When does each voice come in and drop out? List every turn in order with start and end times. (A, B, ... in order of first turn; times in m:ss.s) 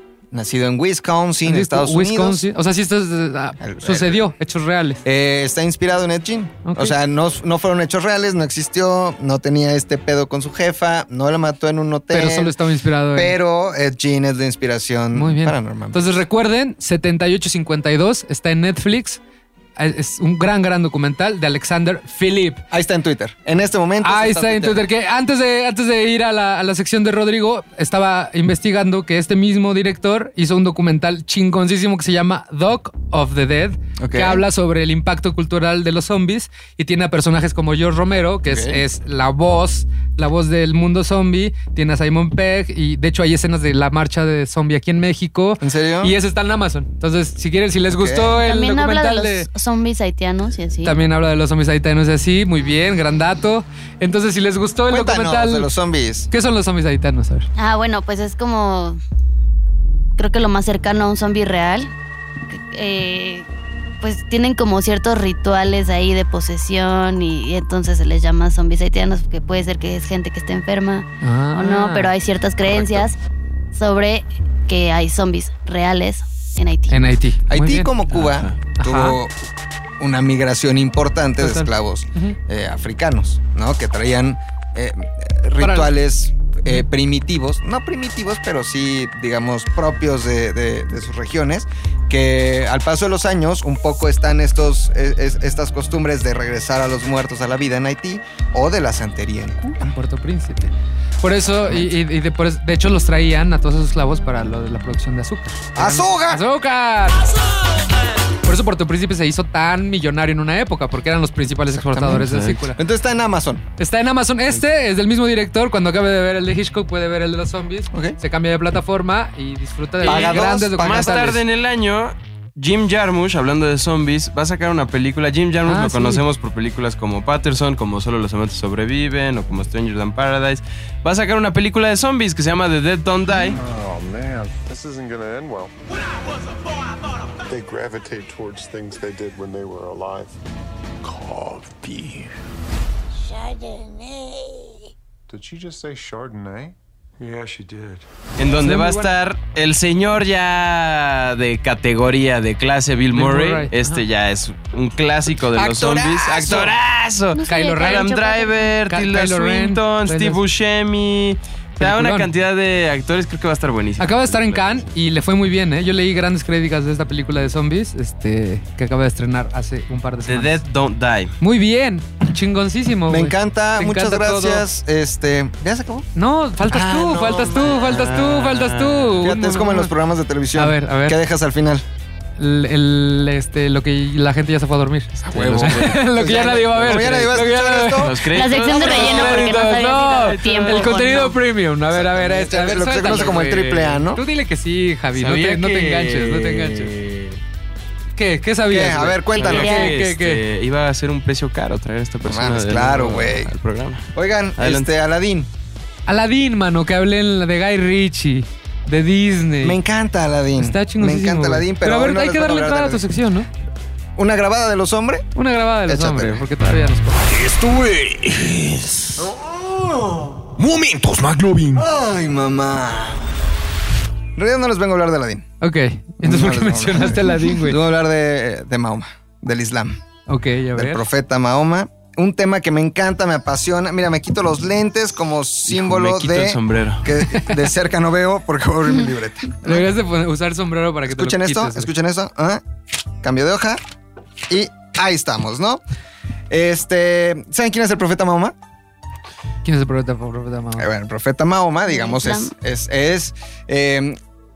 0:00.3-0:02.5 A
0:01.4-0:05.0 B
0:03.6-0:04.3 A
0:05.0-0:12.6 A
0:06.6-0:07.0 B
0:12.1-0:13.4 B
0:13.1-0:16.2 A
0:15.1-0:19.2 B
0:19.8-0:22.6 B
0:22.7-0:24.8 A
0:24.0-0:49.5 B
0:34.0-0:34.4 A
0:38.5-0:38.8 A
0:45.6-0:46.2 A
0:47.9-0:48.4 A
0:48.4-0:51.0 C
0:50.8-0:55.7 B
0:54.9-0:56.3 A
0:56.3-0:57.5 B
0:57.6-0:59.0 C
1:00.2-1:01.9 C
1:02.5-1:03.5 C
1:04.0-1:13.2 C
1:11.2-1:12.1 B
1:12.7-1:13.0 A
1:13.7-1:17.0 C
1:16.9-1:17.9 B
1:17.5-1:19.3 A
1:18.2-1:18.5 D
1:18.8-1:19.2 B
1:20.0-1:39.9 A
1:21.4-1:22.4 B
1:25.6-1:25.9 B
1:39.8-1:47.3 B
1:45.8-1:46.4 A
1:48.4-1:52.8 B
1:52.0-1:52.6 D
1:52.8-1:53.6 A
1:53.8-2:01.4 B
1:57.9-1:58.2 A
2:00.0-2:01.4 A
2:00.0-2:13.6 D
2:05.7-2:06.2 B
2:13.5-2:15.7 E
2:17.5-2:20.4 E
2:21.0-2:22.3 E
2:23.2-2:24.7 E
2:25.3-2:28.1 E
2:28.4-2:44.8 D
2:28.5-2:29.1 B
2:33.1-2:34.0 B
2:35.5-2:36.8 A
2:37.3-2:38.7 C
2:37.5-2:38.2 B
2:38.9-2:40.4 B
2:41.8-2:42.3 B
2:44.0-2:50.6 B
2:50.3-2:51.3 D
2:51.4-2:54.6 B
2:53.1-2:56.1 A
2:56.2-2:59.9 B
2:56.7-2:58.2 A
2:57.6-2:59.3 D
2:59.2-3:01.8 A
3:00.6-3:01.2 B
3:02.4-3:16.9 B
3:05.2-3:09.1 A
3:05.3-3:06.0 D
3:06.7-3:07.3 D
3:08.0-3:11.1 D
3:08.3-3:11.4 C
3:11.9-3:14.2 A
3:13.0-3:14.0 D
3:15.1-3:17.4 D
3:18.2-3:20.4 B
3:18.7-3:19.9 A
3:19.3-3:24.1 D
3:19.5-3:19.9 C
3:22.2-3:23.5 A
3:24.1-3:25.5 A
3:24.6-3:24.9 D
3:26.1-3:29.8 B
3:29.6-3:33.1 A
3:30.6-3:33.5 B
3:34.2-3:35.3 A
3:35.4-3:37.2 B
3:35.9-3:36.5 A
3:37.3-3:39.0 F
3:39.2-3:40.4 A
3:40.6-3:41.8 F
3:41.7-3:43.2 A
3:44.4-3:45.5 A
3:45.6-3:47.8 B
3:46.2-3:50.0 A
3:50.3-3:51.0 B
3:50.7-3:59.9 A
3:55.7-3:57.1 D
3:57.3-3:57.6 B
3:59.6-4:01.9 B
4:01.1-4:02.6 A
4:03.2-4:03.8 A
4:04.5-4:05.8 A
4:06.5-4:08.6 A
4:09.6-4:10.9 B
4:10.8-4:14.2 A
4:11.9-4:12.5 C